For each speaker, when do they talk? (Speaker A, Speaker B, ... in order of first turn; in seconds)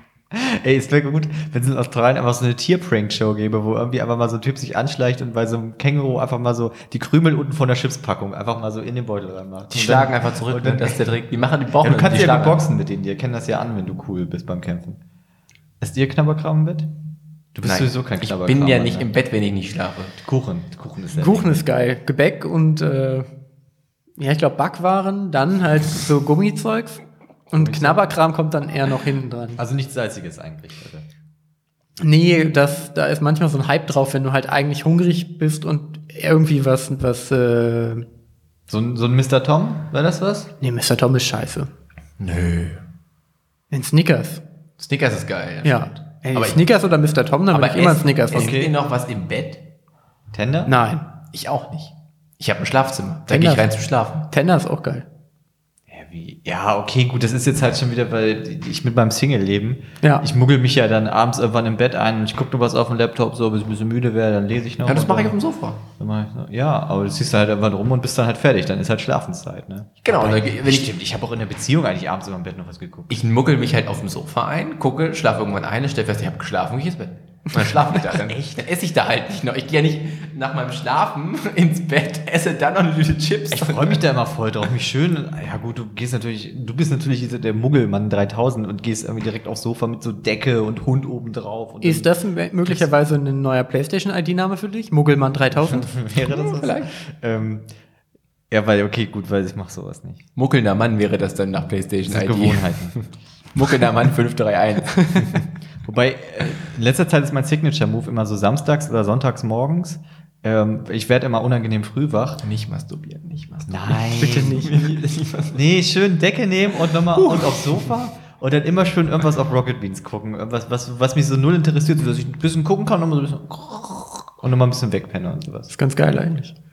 Speaker A: 0.3-11.1, 11.8-15.0, 15.8-16.9, 17.6-19.1, 20.2-21.6, 27.6-28.0, 29.6-31.1, 38.7-40.5, 48.3-48.7, 50.3-50.8, 55.9-65.4, 65.9-73.2, 83.5-92.1, 95.6-97.7, 98.5-100.2, 102.1-103.0, 105.8-112.4, 113.7-114.7, 115.5-125.7
Speaker B: 9.7-12.6, 17.6-20.2, 42.2-42.8, 44.8-46.6, 47.5-49.6, 51.3-54.3, 64.8-65.8, 70.0-70.9, 73.1-84.0, 96.3-96.9, 100.3-103.0, 103.5-105.4, 112.4-115.6, 117.2-117.9
Speaker C: 21.1-23.3, 24.2-29.6, 32.0-38.1, 40.6-41.7, 43.7-44.4, 45.6-48.6, 50.7-51.0, 53.3-53.7, 54.3-55.0, 91.8-95.9, 114.2-114.8, 125.7-126.5